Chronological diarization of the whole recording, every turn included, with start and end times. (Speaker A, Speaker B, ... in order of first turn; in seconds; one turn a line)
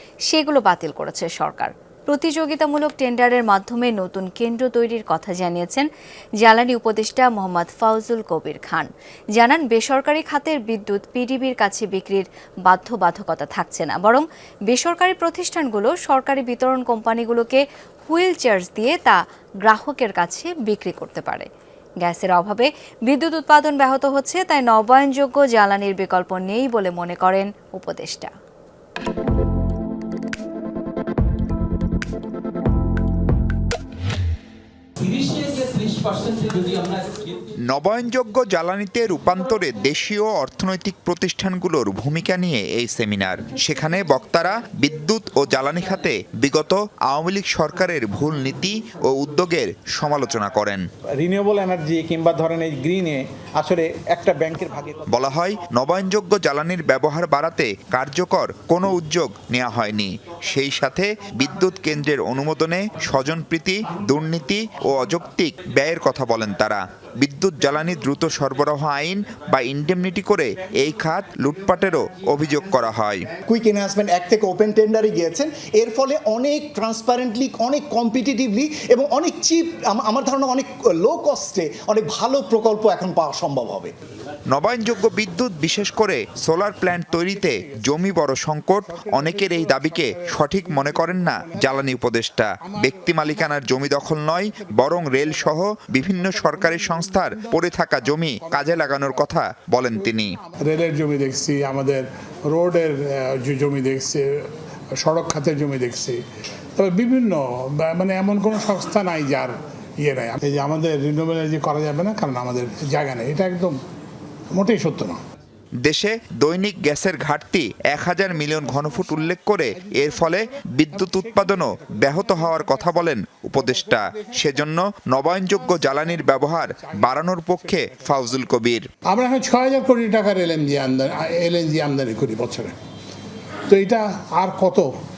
Speaker A: 0.3-5.9
Speaker A: 6.4-21.5
Speaker A: 22.0-28.3
Speaker B: 35.0-37.5
Speaker C: 37.7-50.8
Speaker B: 51.2-55.1
Speaker C: 55.1-73.3
Speaker D: 73.5-83.9
Speaker C: 84.5-100.3
Speaker E: 87.1-88.2
Speaker E: 88.8-92.0
Speaker E: 92.6-99.3
Speaker E: 99.9-106.2
Speaker E: 106.8-113.8
Speaker E: 114.5-115.2
Speaker C: 115.8-128.9
Speaker E: 118.3-132.8
Speaker E: 133.7-134.9